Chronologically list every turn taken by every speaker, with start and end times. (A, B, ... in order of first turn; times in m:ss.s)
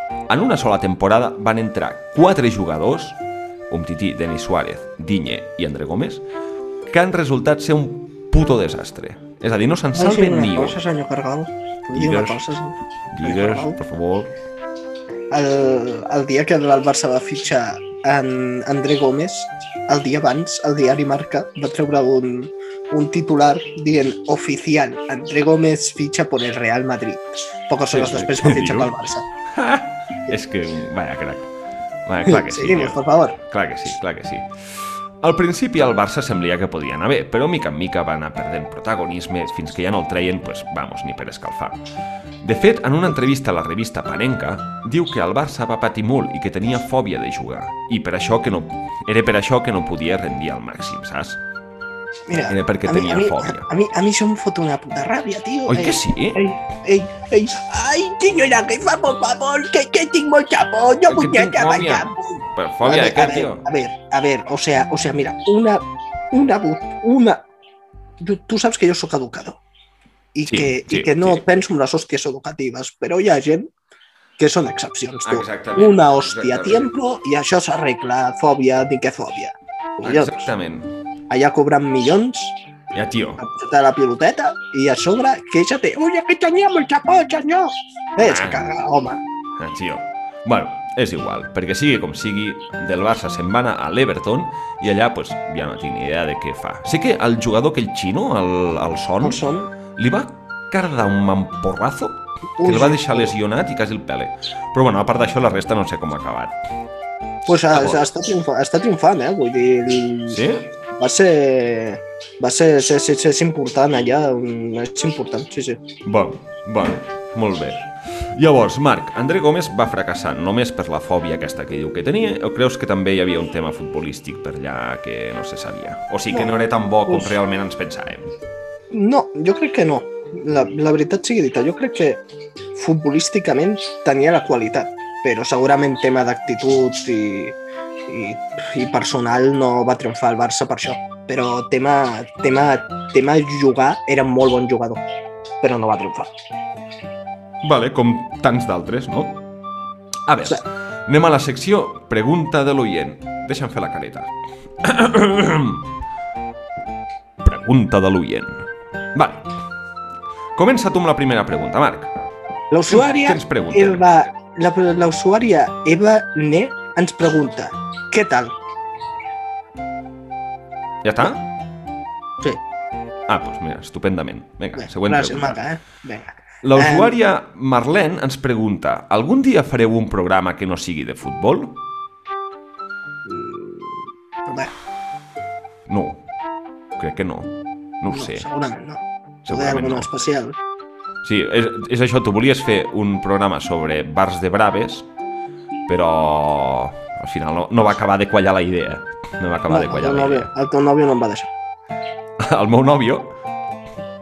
0:00.3-0:03.2 A
0:03.7-0:06.2 A
0:06.9-0:10.8 A
0:09.9-0:13.8 B
0:11.9-0:12.4 A
0:13.1-0:14.3 A
0:15.3-0:29.2 B
0:27.9-0:28.9 A
0:29.5-0:31.5 A
0:32.0-0:41.8 A
0:32.2-0:33.4 B
0:42.4-0:51.4 A
0:52.3-1:07.4 B
0:52.4-0:53.7 A
0:55.7-0:56.4 A
1:01.1-1:03.6 A
1:08.2-1:09.6 B
1:10.3-1:13.7 B
1:10.5-1:11.4 A
1:14.4-1:20.5 B
1:15.2-1:16.9 A
1:20.0-1:20.9 A
1:21.3-1:22.6 B
1:22.9-1:23.4 A
1:23.4-1:29.2 B
1:28.2-1:28.8 A
1:29.6-1:39.4 A
1:39.2-1:39.7 B
1:40.0-1:46.6 A
1:42.6-1:43.3 B
1:47.5-1:55.8 B
1:47.7-1:48.0 A
1:50.3-1:50.7 A
1:56.0-2:08.2 A
2:08.9-2:12.2 B
2:12.7-2:25.0 B
2:25.6-2:26.3 B
2:27.6-2:29.4 A
2:30.3-2:35.8 A
2:37.4-2:39.5 A
2:40.6-2:42.1 A
2:42.7-2:48.5 B
2:42.9-2:44.0 A
2:51.0-2:51.4 A
2:53.3-2:55.6 A
2:54.8-2:57.1 B
2:56.6-3:01.8 A
3:03.2-3:04.7 B
3:05.9-3:06.2 A
3:07.0-3:08.4 A
3:08.1-3:10.6 B
3:09.4-3:10.2 A
3:11.2-3:15.1 A
3:15.9-3:20.5 A
3:19.7-3:21.5 B
3:22.4-3:23.3 A